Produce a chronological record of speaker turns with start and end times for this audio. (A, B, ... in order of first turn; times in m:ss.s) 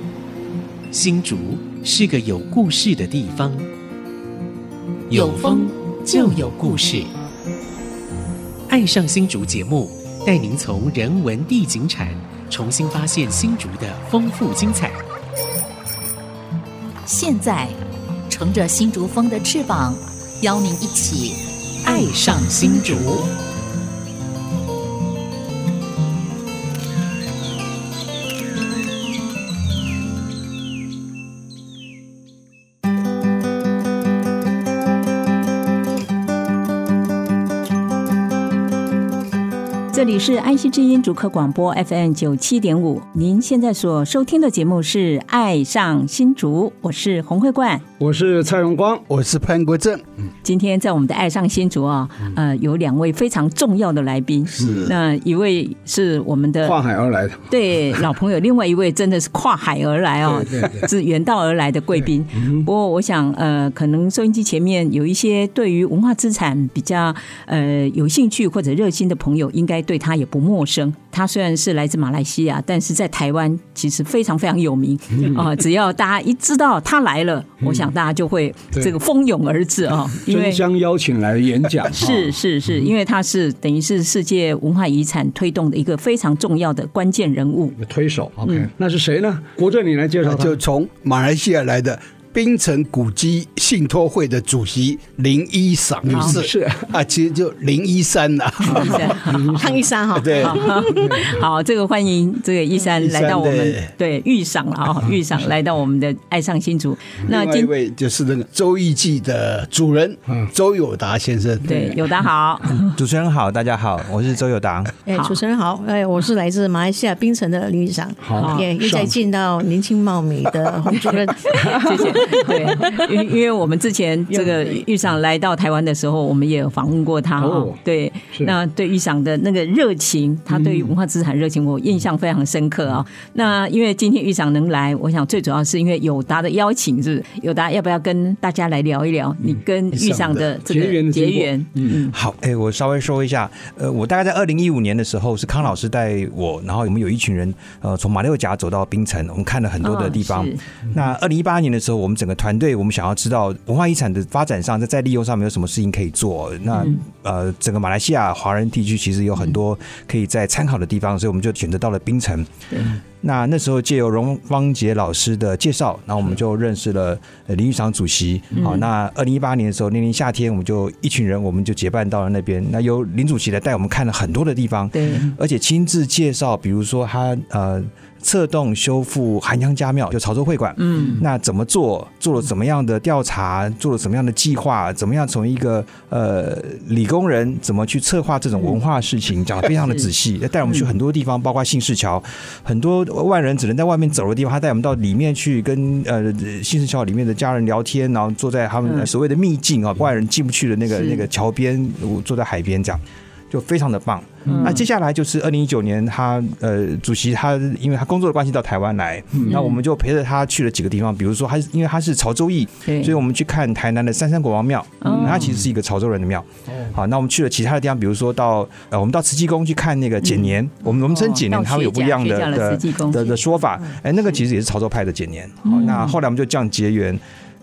0:00.9-0:03.7 A
0:05.1-0:06.9 B
0:05.1-0:07.1 A
0:08.7-0:15.0 A
0:17.0-0:23.1 B
0:21.8-0:23.3 A
0:39.9-0:47.8 C
0:48.0-0:49.0 D
0:49.1-0:50.0 E
0:50.4-0:56.8 C
0:54.5-0:54.9 E
0:56.6-0:58.0 D
0:57.5-1:20.6 C
1:00.2-1:00.9 D
1:02.0-1:02.7 D
1:15.1-1:15.5 D
1:17.6-1:17.9 D
1:20.3-1:22.4 D
1:21.9-1:27.8 C
1:27.8-1:30.6 D
1:30.2-1:39.4 E
1:36.1-1:36.9 D
1:38.7-1:39.5 C
1:38.7-1:39.6 D
1:38.9-1:41.1 F
1:40.1-1:41.2 E
1:40.4-1:47.7 C
1:41.0-1:41.4 D
1:43.0-1:43.9 E
1:47.2-1:52.0 E
1:51.6-1:52.9 C
1:53.0-1:54.9 G
1:55.0-2:01.9 F
1:58.2-1:59.1 D
1:58.4-1:58.7 C
2:01.1-2:22.1 C
2:04.3-2:04.8 F
2:07.4-2:07.8 D
2:10.5-2:10.9 D
2:19.9-2:20.5 E
2:20.6-2:22.0 D
2:22.1-3:47.2 G
2:29.8-2:30.6 C
2:36.7-2:37.0 C
2:48.5-2:48.8 C
2:54.9-2:55.3 C
3:00.8-3:01.2 C
3:09.8-3:10.1 C
3:18.8-3:19.1 C
3:20.9-3:21.2 C
3:24.4-3:24.8 C
3:29.3-3:29.6 D
3:29.5-3:29.8 C
3:32.8-3:33.1 C
3:35.0-3:35.5 C
3:35.1-3:35.6 D
3:40.2-3:43.3 C
3:45.6-3:46.1 C